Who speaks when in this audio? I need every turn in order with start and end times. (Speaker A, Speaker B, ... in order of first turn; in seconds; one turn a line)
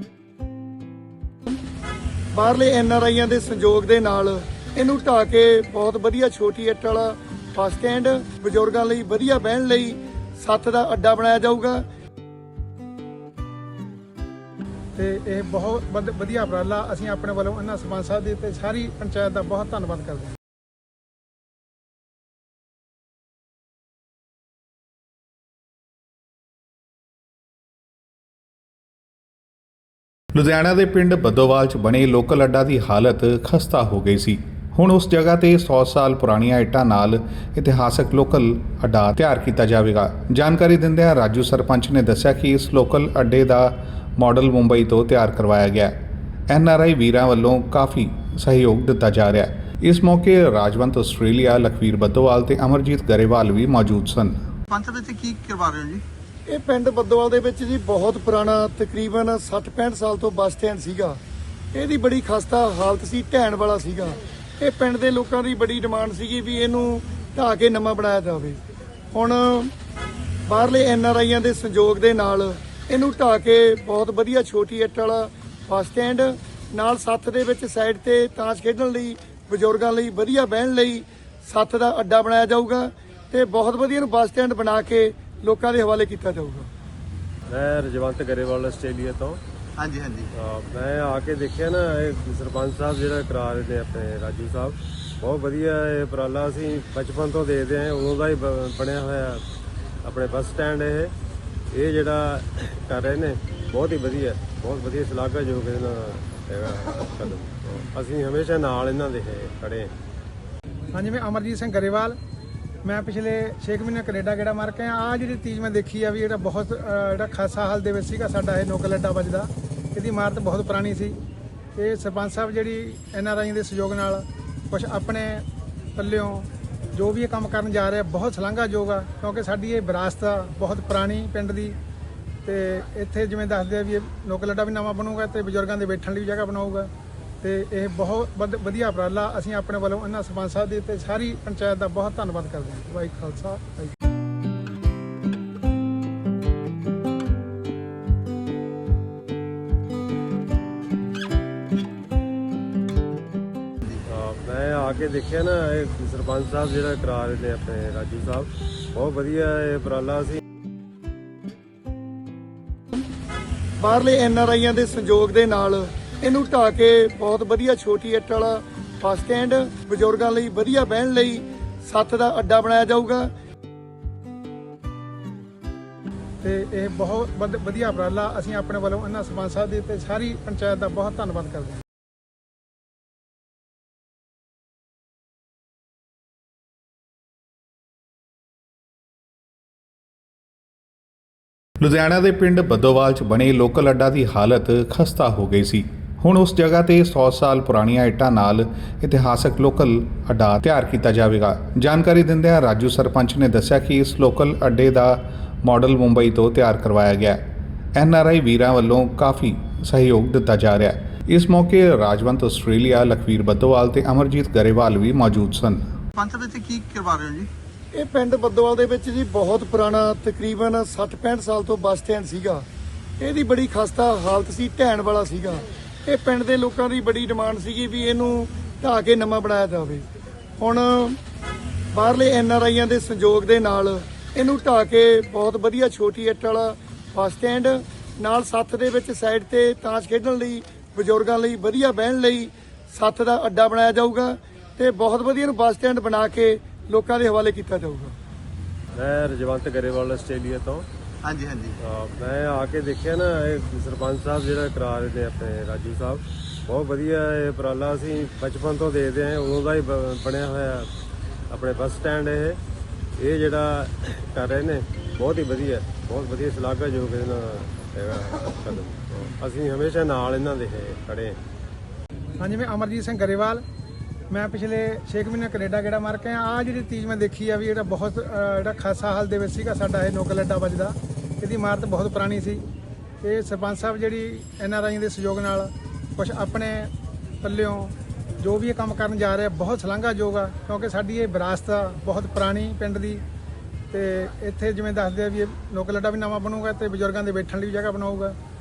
Speaker A: 2.3-11.8
Speaker B: 14.9-20.4
Speaker C: 30.4-46.0
Speaker C: 46.5-54.4
Speaker D: 54.7-56.0
Speaker A: 56.5-61.2
Speaker A: 61.7-68.6
Speaker A: 69.1-69.7
Speaker A: 70.5-86.7
Speaker E: 87.5-89.4
Speaker D: 89.8-90.3
Speaker E: 90.3-99.4
Speaker E: 100.0-101.1
Speaker E: 101.7-109.9
Speaker B: 110.9-112.2
Speaker B: 112.8-121.2
Speaker B: 121.8-131.8
Speaker B: 132.4-143.9
Speaker E: 154.0-160.4
Speaker A: 163.8-173.3
Speaker B: 176.4-181.8
Speaker C: 191.8-207.4
Speaker C: 207.9-215.8
Speaker D: 216.2-217.5
Speaker A: 217.9-222.7
Speaker A: 223.2-230.1
Speaker A: 230.6-231.2
Speaker A: 231.9-248.2
Speaker E: 249.0-250.9
Speaker D: 251.2-251.8
Speaker E: 251.8-260.9
Speaker E: 261.5-262.6
Speaker E: 263.2-271.4
Speaker B: 272.4-273.6
Speaker B: 274.3-282.6
Speaker B: 283.2-293.2
Speaker B: 293.9-298.4